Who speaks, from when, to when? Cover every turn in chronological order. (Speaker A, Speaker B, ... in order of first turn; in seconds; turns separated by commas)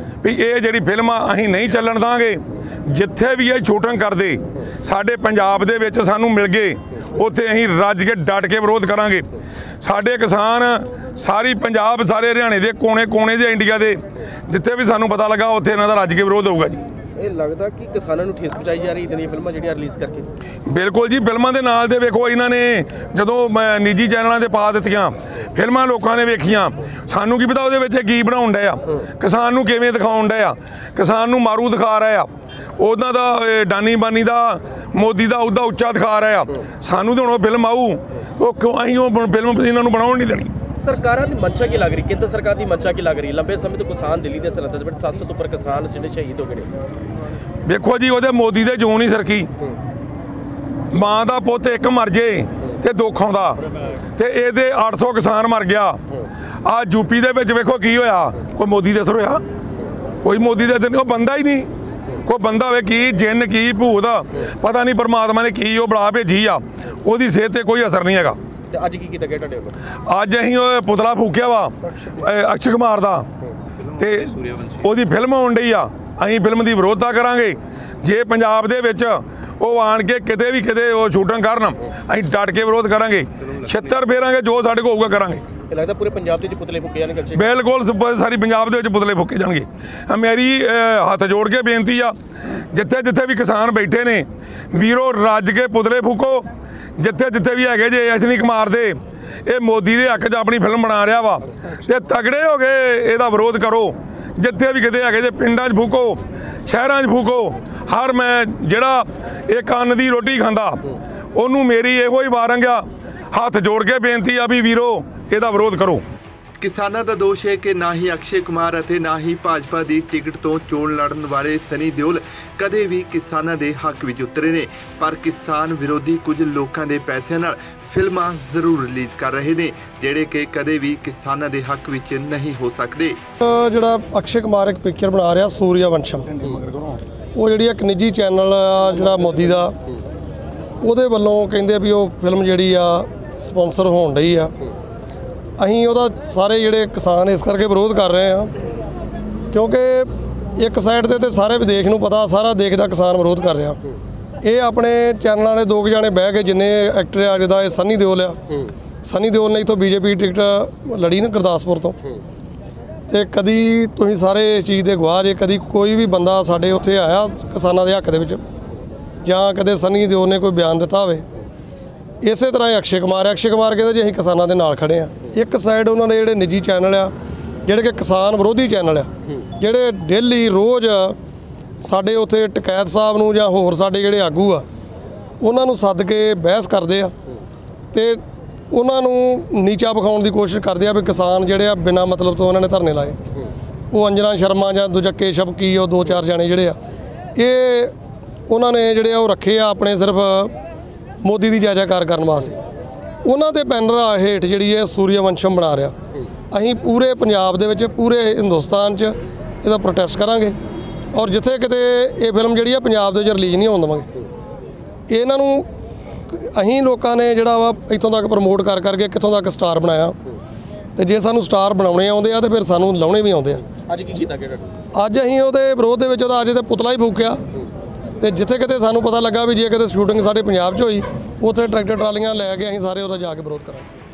Speaker A: 0.2-9.3, Speaker A: 9.8-16.9, Speaker B: 17.2-20.3, Speaker A: 20.6-40.5, Speaker B: 40.8-46.7, Speaker A: 47.6-49.5, Speaker A: 50.9-53.6, Speaker A: 54.1-56.0, Speaker A: 56.6-59.4, Speaker A: 60.2-61.7, Speaker A: 62.2-68.4, Speaker B: 68.7-69.8, Speaker A: 70.0-73.3, Speaker A: 73.9-85.4, Speaker B: 85.7-87.4, Speaker A: 87.3-92.1, Speaker A: 92.7-116.0, Speaker C: 116.6-133.2, Speaker D: 133.4-136.4, Speaker A: 136.5-137.0, Speaker D: 137.3-139.8, Speaker D: 140.8-144.5, Speaker D: 145.6-148.6, Speaker D: 149.5-153.8, Speaker D: 154.4-158.5, Speaker D: 159.0-162.0, Speaker D: 163.1-168.4, Speaker D: 169.2-171.2, Speaker D: 172.2-177.1, Speaker D: 177.6-181.2, Speaker D: 181.8-184.7, Speaker D: 185.4-187.1, Speaker D: 187.9-193.2, Speaker D: 193.9-196.8, Speaker D: 197.3-197.9, Speaker D: 198.5-200.5, Speaker D: 201.2-202.6, Speaker D: 203.2-205.9, Speaker D: 206.5-210.6, Speaker D: 211.1-214.1, Speaker D: 215.1-215.7, Speaker D: 216.3-220.2, Speaker D: 220.9-223.6, Speaker B: 223.9-224.7, Speaker D: 224.9-227.4, Speaker D: 228.2-233.9